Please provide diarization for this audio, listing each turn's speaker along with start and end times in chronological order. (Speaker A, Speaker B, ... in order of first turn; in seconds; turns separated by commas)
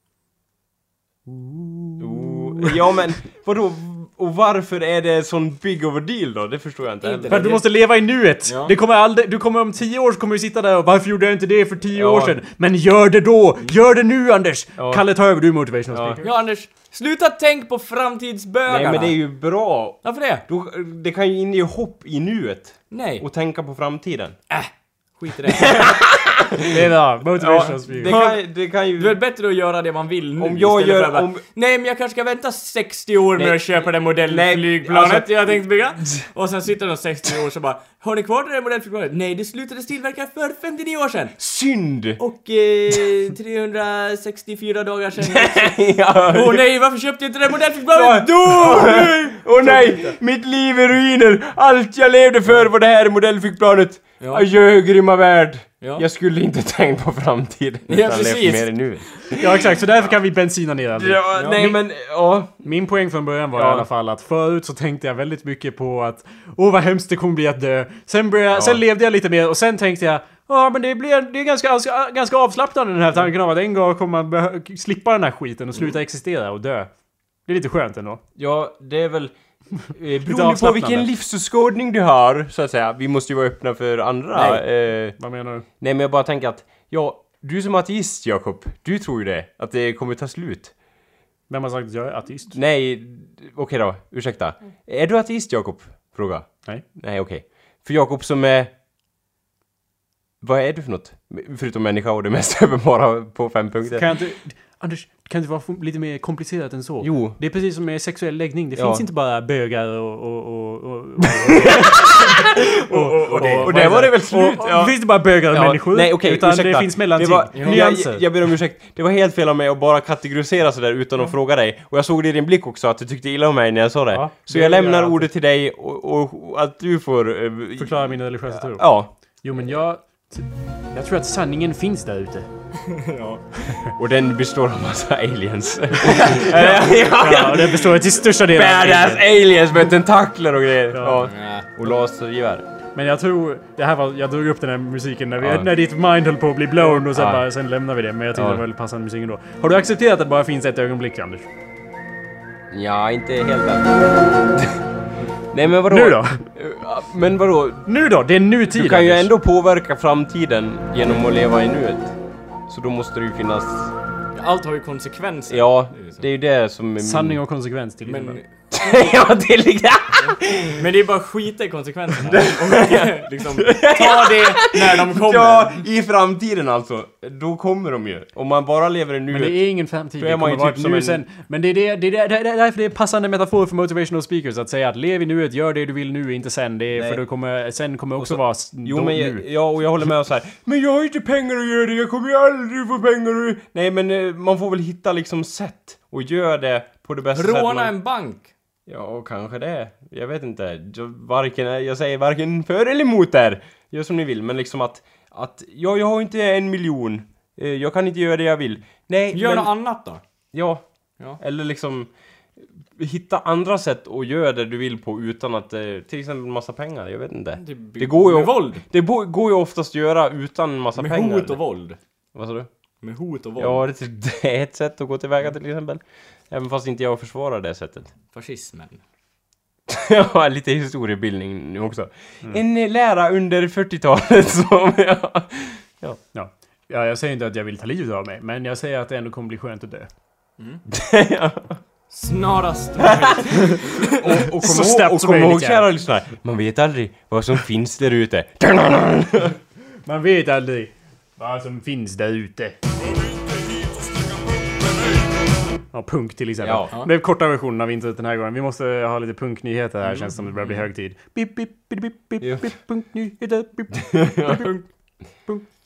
Speaker A: 1.3-2.8, Speaker B: 2.0-7.4, Speaker C: 7.0-7.7, Speaker A: 7.3-16.3, Speaker C: 8.4-8.7, Speaker B: 11.9-12.4, Speaker B: 14.8-15.0, Speaker B: 15.9-16.2, Speaker C: 16.2-19.2, Speaker B: 18.7-24.4, Speaker C: 20.0-20.4, Speaker C: 22.9-23.2, Speaker C: 24.5-26.0, Speaker B: 25.5-26.8, Speaker A: 26.6-28.2, Speaker B: 27.4-29.2, Speaker C: 28.0-28.4, Speaker C: 28.9-41.4, Speaker B: 30.4-31.4, Speaker B: 33.4-35.6, Speaker B: 41.4-42.2, Speaker C: 42.2-50.1, Speaker B: 45.2-46.6, Speaker B: 47.9-59.6, Speaker C: 54.2-54.5, Speaker C: 57.9-58.9, Speaker A: 59.4-61.7, Speaker B: 61.0-62.6, Speaker C: 61.3-61.7, Speaker A: 62.6-76.9, Speaker B: 63.5-63.9, Speaker B: 68.5-68.8, Speaker A: 77.5-78.2, Speaker B: 78.4-79.3, Speaker B: 79.9-85.2, Speaker A: 80.2-81.1, Speaker C: 84.3-84.6, Speaker A: 85.2-85.7, Speaker B: 85.8-90.7, Speaker A: 91.5-92.6, Speaker B: 92.5-98.7, Speaker B: 100.4-104.1, Speaker A: 103.9-118.2, Speaker B: 107.0-107.4, Speaker B: 108.8-109.0, Speaker B: 111.4-112.5, Speaker C: 112.9-114.1, Speaker B: 113.4-128.0, Speaker C: 117.5-117.8, Speaker A: 124.1-125.3, Speaker A: 127.8-128.9, Speaker B: 128.6-129.1, Speaker A: 129.4-132.5, Speaker C: 132.9-133.4, Speaker B: 134.0-142.7, Speaker A: 136.4-139.2, Speaker A: 140.9-141.2, Speaker C: 141.2-141.7, Speaker A: 142.9-151.5, Speaker B: 145.4-145.7, Speaker B: 146.8-147.4, Speaker B: 148.3-148.6, Speaker B: 152.7-154.8, Speaker B: 155.5-157.9, Speaker A: 155.8-156.4, Speaker A: 157.9-159.3, Speaker B: 158.7-162.2, Speaker B: 162.7-163.9, Speaker C: 164.3-166.2, Speaker B: 165.5-167.4, Speaker A: 167.0-168.4, Speaker C: 168.1-168.5, Speaker B: 168.7-170.8, Speaker C: 170.3-175.8, Speaker B: 172.2-179.7, Speaker A: 179.3-189.4, Speaker B: 180.2-181.2, Speaker B: 186.9-187.2, Speaker B: 188.2-197.9, Speaker C: 197.3-198.5, Speaker B: 198.9-209.7, Speaker C: 209.3-210.2, Speaker B: 210.5-210.8, Speaker B: 211.4-212.1, Speaker B: 213.0-221.6, Speaker C: 217.6-218.8, Speaker C: 221.0-222.0, Speaker B: 222.3-222.7, Speaker C: 223.0-223.8, Speaker B: 223.6-228.1, Speaker C: 228.3-229.0, Speaker B: 229.9-236.2, Speaker A: 236.3-240.1, Speaker B: 240.9-241.8, Speaker C: 242.1-244.2, Speaker B: 243.0-243.5, Speaker B: 244.0-249.6, Speaker A: 244.4-245.9, Speaker A: 250.1-252.8, Speaker A: 255.9-264.8, Speaker B: 256.6-256.9, Speaker B: 262.4-262.7, Speaker B: 264.0-264.6